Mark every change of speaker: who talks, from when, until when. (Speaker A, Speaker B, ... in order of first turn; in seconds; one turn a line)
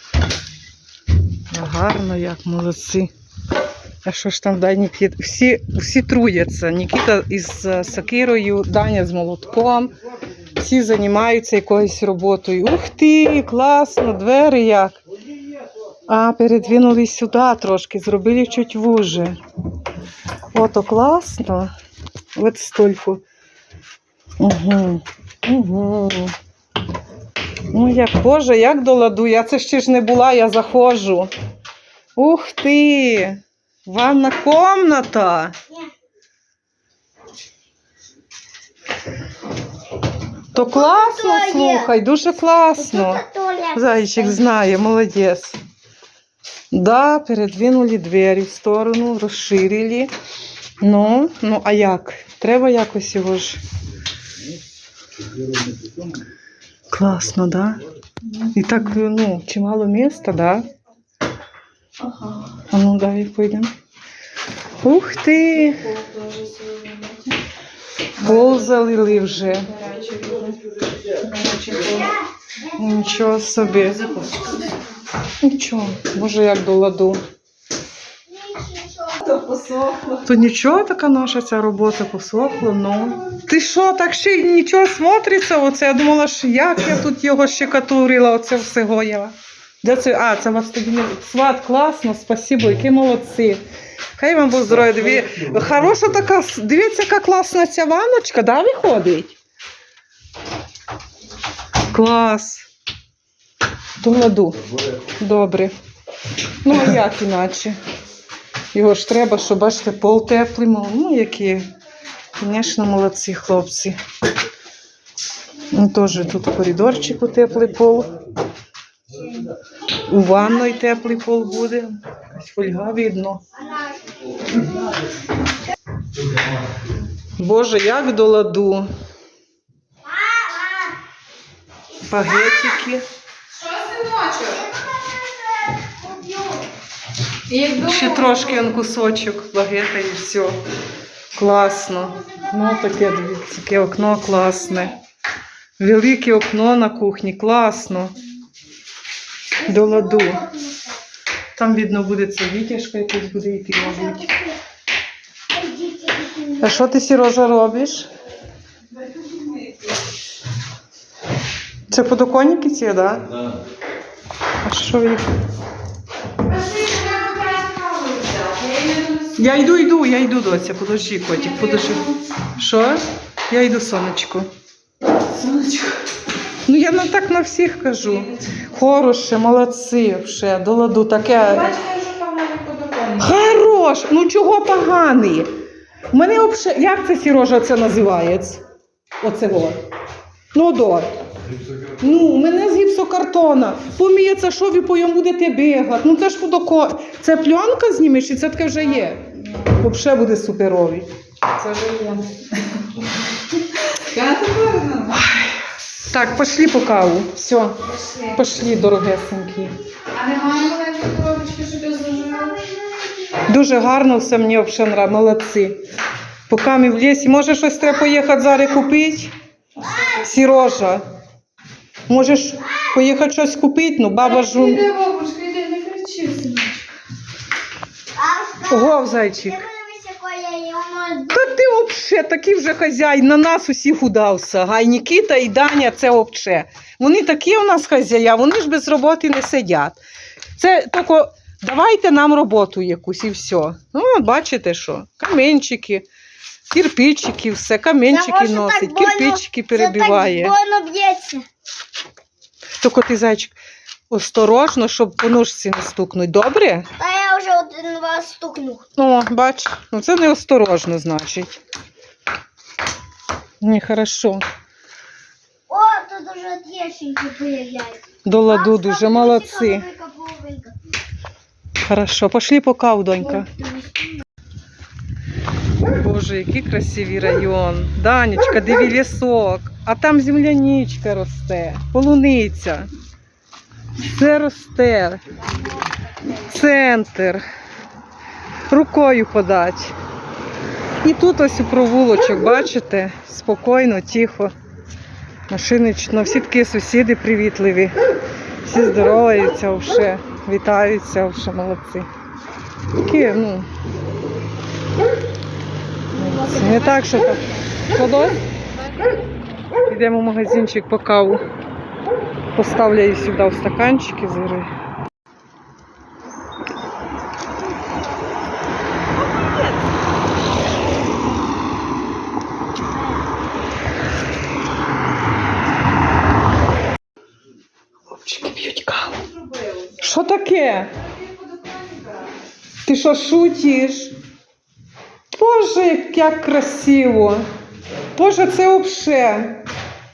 Speaker A: 1.5-3.1
Speaker A: 4.0-9.9
Speaker A: 10.5-15.0
Speaker A: 16.1-19.4
Speaker A: 20.5-21.7
Speaker A: 22.4-23.2
Speaker A: 24.4-26.3
Speaker A: 27.7-31.3
Speaker A: 32.1-35.5
Speaker A: 40.5-43.2
Speaker B: 40.6-41.9
Speaker B: 42.8-44.4
Speaker A: 43.7-45.6
Speaker A: 46.7-50.1
Speaker A: 50.8-53.6
Speaker A: 56.9-57.8
Speaker A: 58.5-60.7
Speaker A: 62.7-63.7
Speaker A: 64.8-66.0
Speaker C: 65.9-67.3
Speaker A: 68.2-70.5
Speaker C: 69.8-70.4
Speaker A: 71.3-72.1
Speaker C: 71.4-71.8
Speaker B: 71.8-72.2
Speaker A: 72.7-74.4
Speaker C: 74.0-74.6
Speaker A: 75.4-77.2
Speaker B: 78.3-79.6
Speaker C: 79.3-80.2
Speaker A: 80.1-93.6
Speaker A: 94.2-99.4
Speaker A: 101.9-102.7
Speaker A: 104.0-104.6
Speaker A: 105.2-105.7
Speaker A: 106.6-107.8
Speaker A: 108.7-111.7
Speaker A: 112.4-114.0
Speaker A: 115.7-118.1
Speaker A: 120.1-123.4
Speaker B: 123.5-124.3
Speaker A: 127.4-128.9
Speaker B: 130.0-131.0
Speaker A: 132.0-133.0
Speaker C: 133.6-134.4
Speaker B: 134.3-136.7
Speaker C: 137.5-138.3
Speaker A: 137.7-140.6
Speaker A: 141.3-144.9
Speaker B: 142.2-143.0
Speaker A: 145.8-148.1
Speaker B: 149.6-151.0
Speaker A: 149.6-150.4
Speaker A: 151.5-154.2
Speaker B: 153.8-154.6
Speaker B: 155.5-156.8
Speaker A: 156.6-158.1
Speaker A: 161.9-163.3
Speaker A: 164.6-165.2
Speaker C: 166.4-169.3
Speaker A: 169.3-174.5
Speaker C: 175.3-176.0
Speaker A: 176.7-181.8
Speaker C: 181.7-183.2
Speaker A: 183.1-185.5
Speaker A: 186.1-188.6
Speaker A: 189.2-189.8
Speaker A: 190.5-191.2
Speaker A: 191.8-202.3
Speaker C: 204.1-205.2
Speaker A: 206.1-209.7
Speaker C: 210.1-212.7
Speaker B: 212.2-213.3
Speaker A: 213.4-215.8
Speaker A: 216.5-219.3
Speaker A: 219.9-221.0
Speaker A: 222.1-224.9
Speaker C: 224.7-226.8
Speaker B: 228.1-231.6
Speaker A: 228.7-229.6
Speaker A: 231.3-240.0
Speaker A: 240.6-246.1
Speaker A: 246.7-250.5
Speaker B: 248.1-251.4
Speaker A: 252.8-253.6
Speaker A: 254.1-256.9
Speaker B: 257.0-258.8
Speaker A: 259.0-261.6
Speaker A: 263.6-264.4
Speaker B: 265.7-270.8
Speaker A: 268.2-269.9
Speaker A: 271.8-273.5
Speaker B: 273.4-274.2
Speaker A: 275.9-282.9
Speaker A: 284.1-285.2
Speaker A: 286.3-287.4
Speaker A: 288.7-289.9
Speaker A: 291.0-294.5
Speaker A: 295.5-297.9
Speaker A: 298.6-302.1
Speaker A: 303.0-303.7
Speaker A: 306.1-308.4
Speaker A: 309.9-311.4
Speaker A: 312.5-314.7
Speaker A: 328.1-329.2
Speaker A: 329.9-330.9
Speaker C: 331.1-332.2
Speaker A: 332.8-334.1
Speaker A: 335.3-337.5
Speaker A: 338.1-339.6